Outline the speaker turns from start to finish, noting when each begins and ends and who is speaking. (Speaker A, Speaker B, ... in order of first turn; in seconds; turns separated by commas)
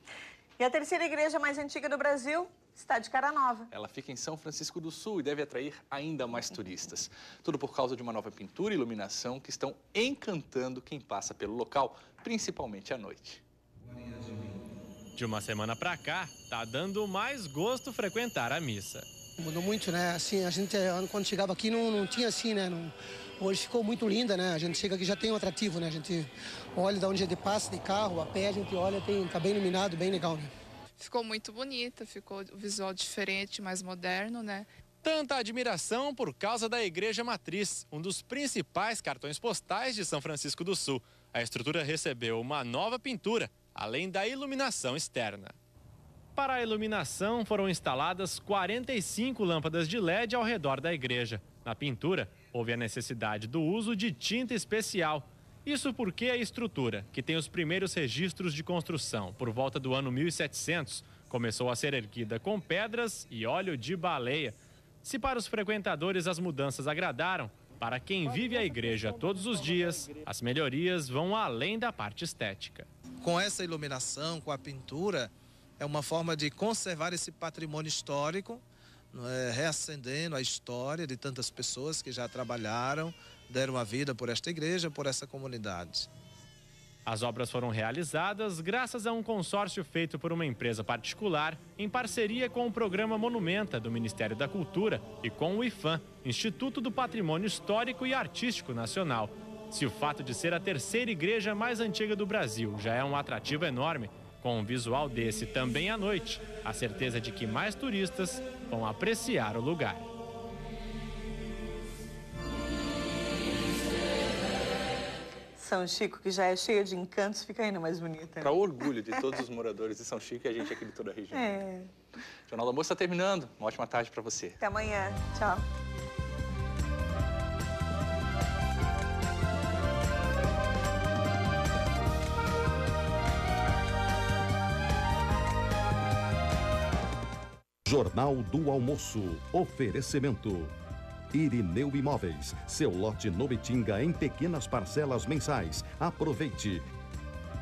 Speaker A: 0.6-3.7, Speaker B: 3.7-13.4, Speaker C: 13.9-14.5, Speaker D: 15.2-19.1, Speaker E: 19.4-30.5, Speaker F: 31.0-34.7, Speaker D: 35.0-45.5, Speaker D: 46.4-72.9, Speaker C: 73.2-86.1, Speaker D: 87.0-110.1, Speaker A: 115.6-119.3, Speaker B: 118.4-121.6, Speaker A: 121.3-121.9, Speaker B: 122.5-124.6, Speaker A: 124.6-125.6, Speaker G: 137.8-140.7, Speaker G: 141.3-146.8